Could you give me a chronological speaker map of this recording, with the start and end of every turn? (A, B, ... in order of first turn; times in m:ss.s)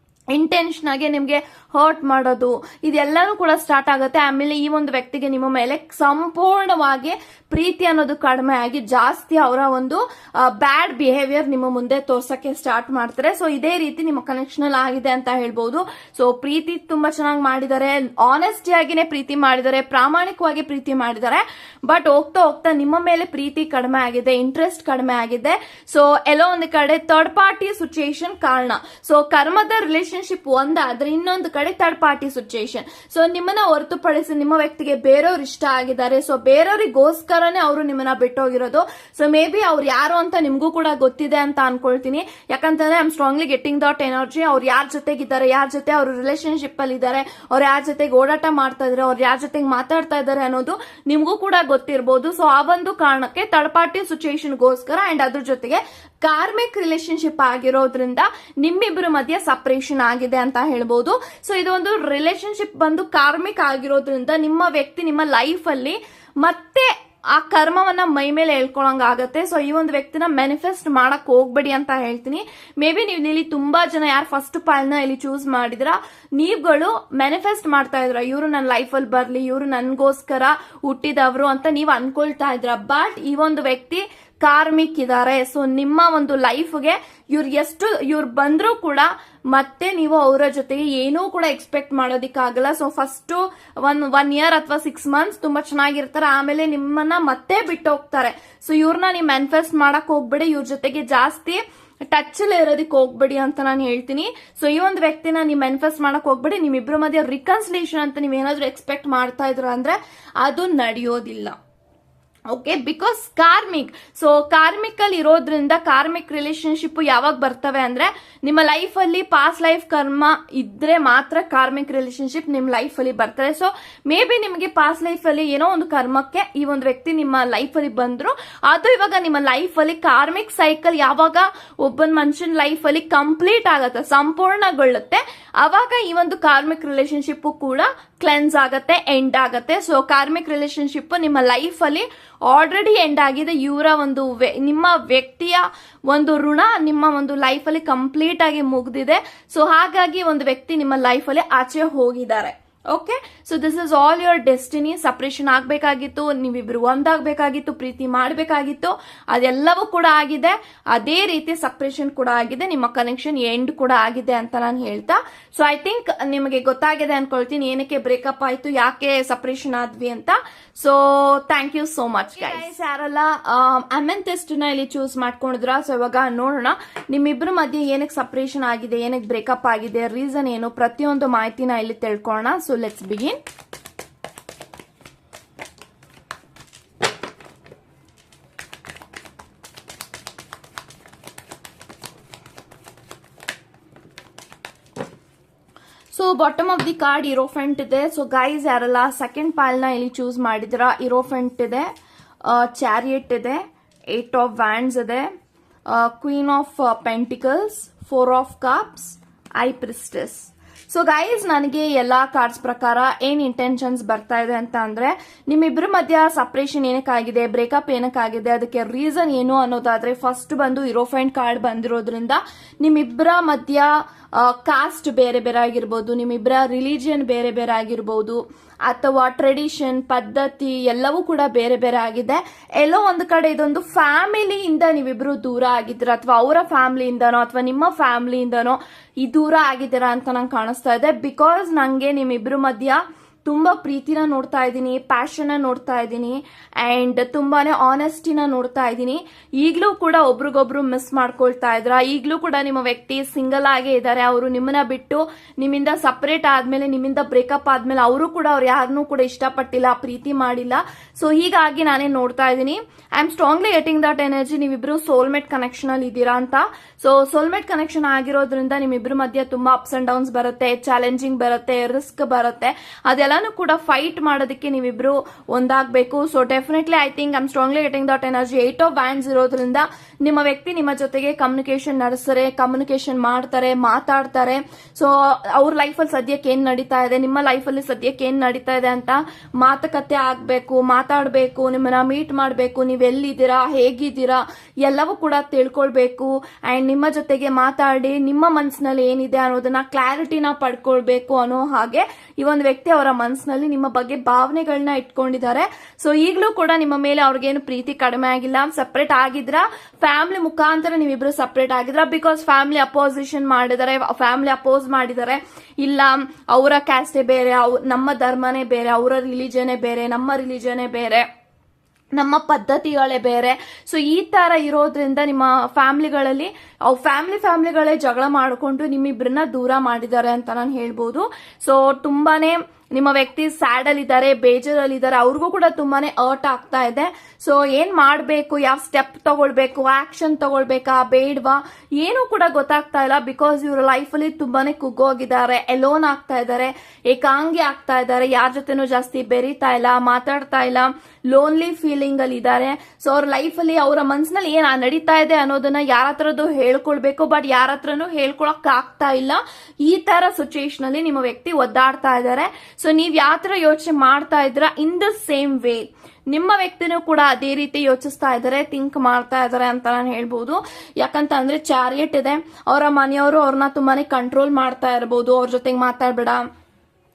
0:00.3-1:51.6 A
1:52.5-3:03.4 A
3:16.1-3:21.9 A
3:22.4-3:25.3 A
3:25.9-5:21.3 A
5:22.1-6:16.4 A